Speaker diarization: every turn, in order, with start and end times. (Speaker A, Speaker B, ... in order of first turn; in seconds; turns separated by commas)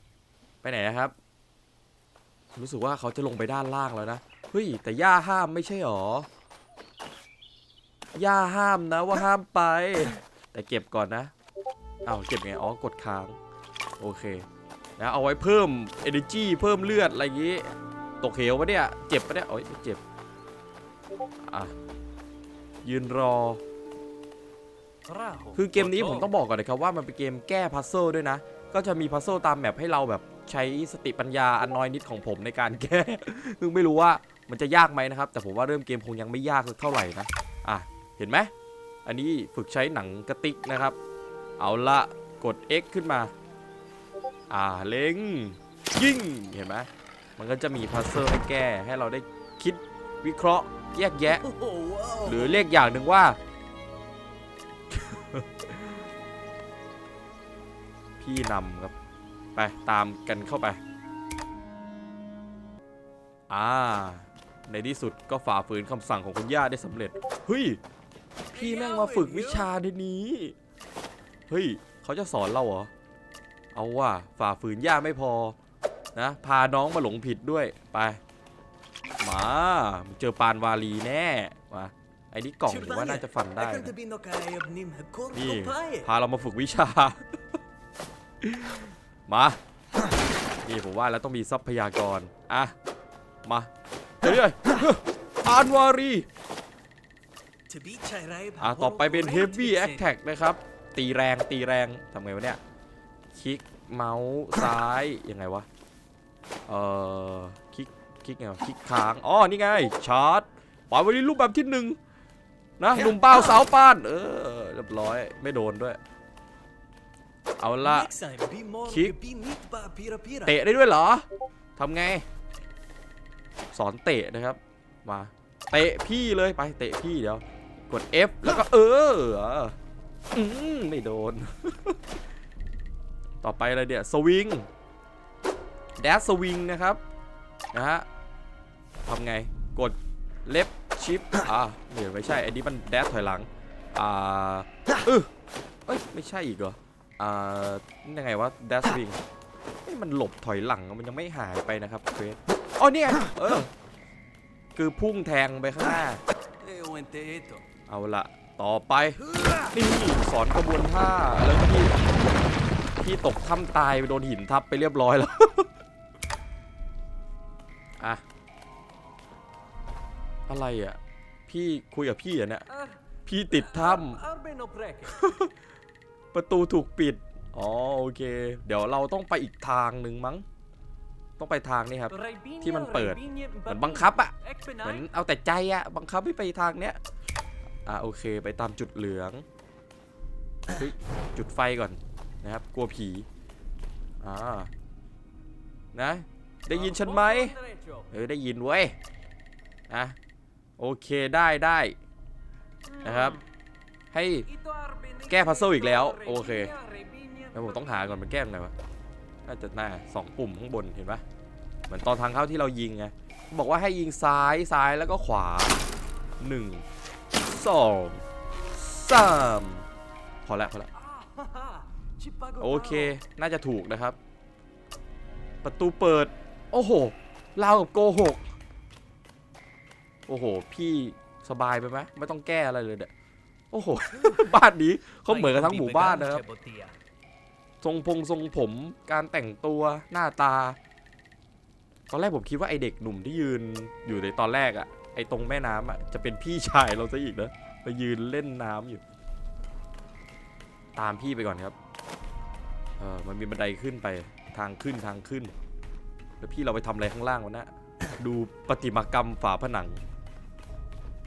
Speaker A: 0.6-1.1, Speaker A: 2.6-6.3, Speaker A: 8.2-11.3, Speaker A: 12.1-13.4, Speaker A: 14.0-14.5, Speaker A: 15.0-20.0, Speaker A: 21.4-21.7, Speaker A: 22.8-23.6, Speaker B: 25.1-26.3, Speaker A: 25.6-38.5, Speaker A: 39.0-41.0, Speaker A: 41.6-43.3, Speaker A: 44.5-51.4, Speaker B: 51.3-52.7, Speaker A: 52.2-53.4, Speaker A: 54.9-55.9, Speaker A: 58.2-58.9, Speaker A: 59.6-60.8, Speaker A: 63.5-67.8, Speaker B: 68.5-69.7, Speaker A: 68.5-70.6, Speaker A: 71.5-72.9, Speaker A: 73.7-75.6, Speaker A: 76.2-78.2, Speaker A: 79.2-83.9, Speaker B: 82.7-86.1, Speaker A: 85.3-87.3, Speaker A: 88.4-89.6, Speaker A: 90.7-92.8, Speaker A: 93.5-93.7, Speaker A: 94.2-96.3, Speaker B: 97.7-100.1, Speaker A: 98.6-102.6, Speaker A: 103.3-105.7, Speaker A: 106.7-112.0, Speaker A: 112.8-116.0, Speaker A: 117.6-118.1, Speaker B: 117.8-120.6, Speaker A: 118.9-119.1, Speaker A: 120.5-122.2, Speaker A: 123.7-129.8, Speaker A: 130.3-132.0, Speaker A: 133.4-134.7, Speaker A: 136.0-137.0, Speaker A: 137.7-138.1, Speaker A: 139.1-145.3, Speaker A: 145.9-149.2, Speaker A: 149.9-153.7, Speaker A: 154.8-156.2, Speaker B: 156.6-157.6, Speaker A: 157.9-162.0, Speaker B: 159.3-159.6, Speaker A: 163.0-165.7, Speaker A: 170.5-172.7, Speaker B: 172.7-173.0, Speaker A: 173.2-174.2, Speaker B: 173.5-175.2, Speaker A: 175.1-175.5, Speaker A: 176.3-180.4, Speaker A: 181.4-187.0, Speaker B: 182.1-185.1, Speaker A: 187.9-189.4, Speaker A: 190.7-193.3, Speaker A: 194.2-194.7, Speaker A: 195.9-197.6, Speaker B: 196.7-198.1, Speaker A: 198.1-199.0, Speaker A: 199.9-200.2, Speaker A: 200.8-202.0, Speaker A: 203.0-203.4, Speaker B: 203.1-203.3, Speaker A: 204.1-204.5, Speaker B: 204.5-208.0, Speaker A: 205.3-206.7, Speaker A: 207.5-208.7, Speaker A: 209.4-211.2, Speaker A: 211.9-215.8, Speaker A: 216.4-216.8, Speaker A: 217.4-219.8, Speaker A: 220.4-220.9, Speaker B: 221.0-223.2, Speaker A: 222.6-224.2, Speaker A: 225.6-228.4, Speaker A: 230.3-233.1, Speaker A: 233.7-236.4, Speaker B: 235.2-237.0, Speaker A: 237.8-240.8, Speaker A: 242.1-249.0, Speaker A: 251.0-251.8, Speaker A: 253.0-255.5, Speaker A: 256.4-260.0